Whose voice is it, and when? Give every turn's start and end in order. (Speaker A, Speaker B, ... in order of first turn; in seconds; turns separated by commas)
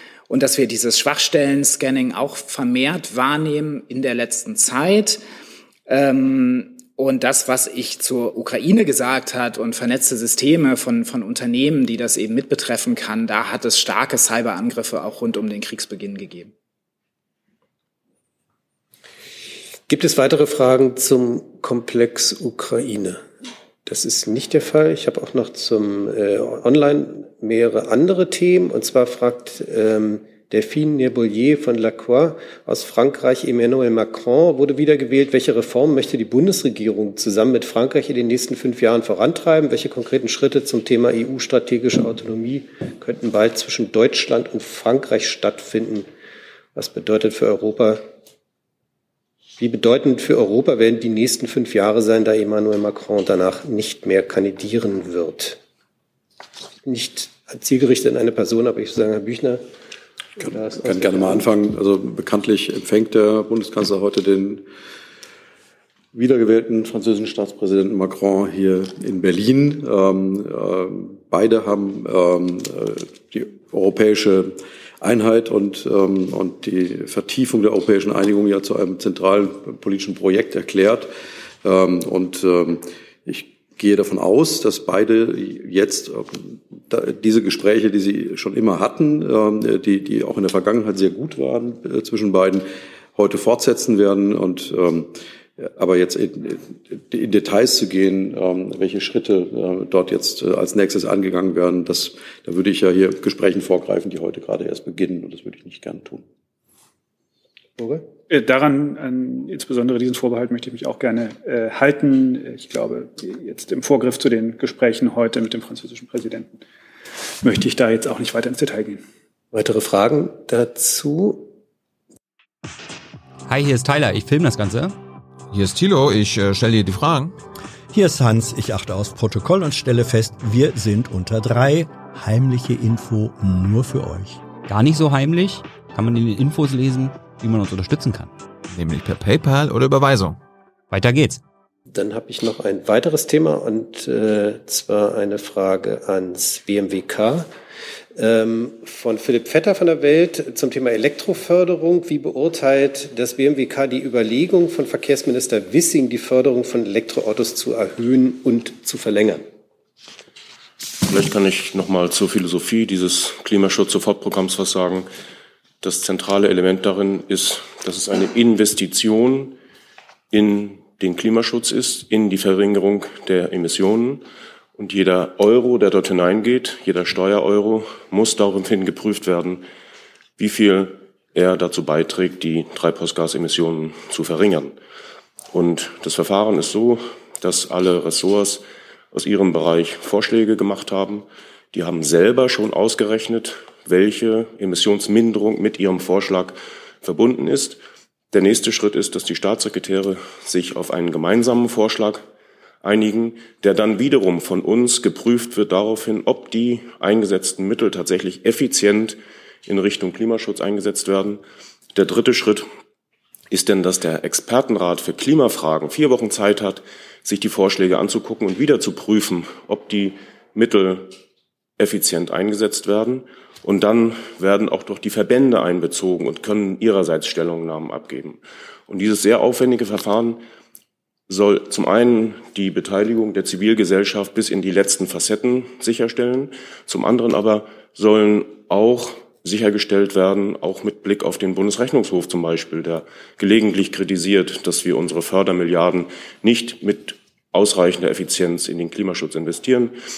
Speaker A: 0.3-5.2, Speaker A: 5.9-16.5, Speaker B: 19.9-23.2, Speaker B: 23.8-46.1, Speaker B: 46.7-48.0, Speaker B: 49.6-55.6, Speaker B: 56.8-59.6, Speaker C: 60.4-64.6, Speaker B: 60.4-61.5, Speaker C: 66.1-81.1, Speaker C: 81.6-106.2, Speaker B: 107.8-108.0, Speaker D: 108.3-116.6, Speaker D: 117.4-119.0, Speaker B: 119.5-121.5, Speaker E: 123.5-124.9, Speaker F: 125.5-127.3, Speaker G: 127.9-134.5, Speaker E: 134.6-138.3, Speaker F: 138.7-140.4, Speaker E: 140.9-141.4, Speaker B: 141.9-147.5, Speaker B: 148.1-159.4, Speaker H: 161.1-165.1, Speaker H: 165.8-169.5, Speaker H: 170.3-174.2, Speaker H: 174.8-179.6, Speaker H: 180.4-184.8, Speaker H: 185.5-197.8, Speaker H: 198.3-202.2, Speaker H: 202.8-211.4, Speaker H: 211.9-212.7, Speaker H: 213.5-221.1, Speaker H: 221.8-230.4, Speaker H: 231.3-249.9